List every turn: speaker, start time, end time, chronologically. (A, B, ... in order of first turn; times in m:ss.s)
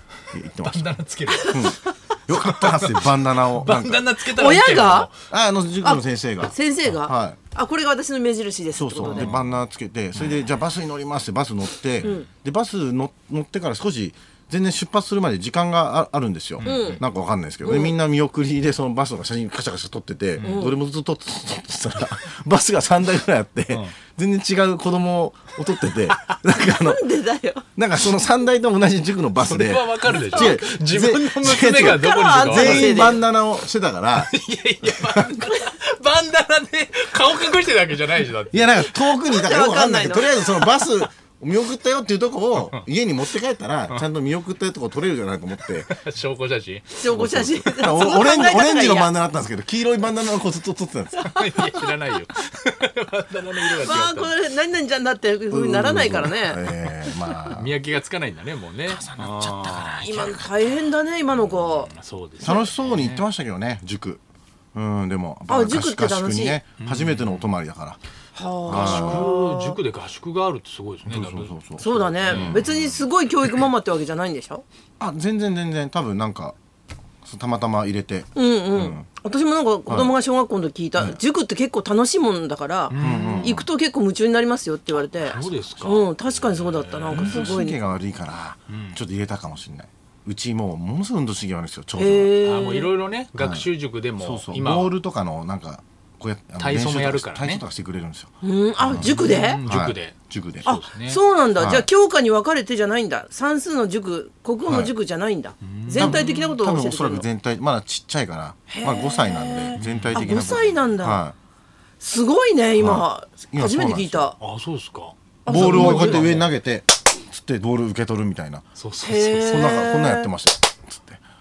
0:00.3-0:00.9 A
0:00.6-0:01.7 B
0:01.3-0:01.9 C
0:01.4-0:04.1 A
0:02.3-0:05.1 B
0:04.2-0:05.1 C
0:05.3-0:07.4 A
0:05.8-0:09.3 C
0:08.7-0:27.0 A
0:09.0-0:09.5 B
0:10.1-0:10.5 B
0:16.6-0:17.0 B
0:16.6-0:17.0 C
0:17.6-0:17.9 C
0:20.4-0:20.7 B
0:20.4-0:20.8 C
0:26.5-0:27.6 C
0:27.8-0:34.3 A
0:29.4-0:33.1 B
0:30.1-0:30.6 C
0:31.7-0:33.2 C
0:34.2-0:39.0 B
0:34.8-0:35.3 A
0:38.5-0:45.9 A
0:39.1-0:40.7 C
0:45.9-0:47.0 B
0:46.9-0:49.1 C
0:47.1-0:51.4 A
0:51.2-0:54.3 B
0:51.4-0:51.7 C
0:53.7-0:56.6 C
0:55.5-0:57.7 A
0:57.5-1:00.1 B
0:58.8-1:00.5 A
1:00.0-1:01.9 C
1:01.6-1:03.2 B
1:02.4-1:04.2 A
1:02.4-1:02.7 C
1:04.7-1:08.0 A
1:05.5-1:06.6 C
1:06.8-1:07.5 B
1:08.3-1:09.8 C
1:08.7-1:09.3 A
1:08.7-1:11.5 B
1:11.0-1:12.6 A
1:11.8-1:14.6 C
1:12.2-1:13.0 B
1:15.0-1:16.6 A
1:17.2-1:19.1 A
1:18.3-1:27.8 C
1:19.9-1:20.1 A
1:22.9-1:23.6 B
1:23.0-1:23.7 A
1:25.1-1:27.6 B
1:27.1-1:32.4 A
1:28.7-1:29.0 B
1:32.0-1:32.9 C
1:32.4-1:35.0 B
1:33.4-1:33.7 A
1:34.2-1:38.3 A
1:36.6-1:37.6 B
1:38.4-1:39.6 C
1:38.8-1:41.2 B
1:38.9-1:40.8 A
1:40.6-1:47.3 C
1:41.6-1:41.9 A
1:44.6-1:44.9 A
1:45.6-1:46.5 B
1:46.0-1:51.3 A
1:48.7-1:51.2 C
1:49.8-1:50.4 B
1:52.0-1:54.4 C
1:52.8-1:54.3 A
1:54.4-1:56.5 B
1:55.4-1:56.3 C
1:55.5-1:58.6 A
1:58.7-1:59.7 B
1:59.0-2:00.3 C
1:59.4-2:01.2 A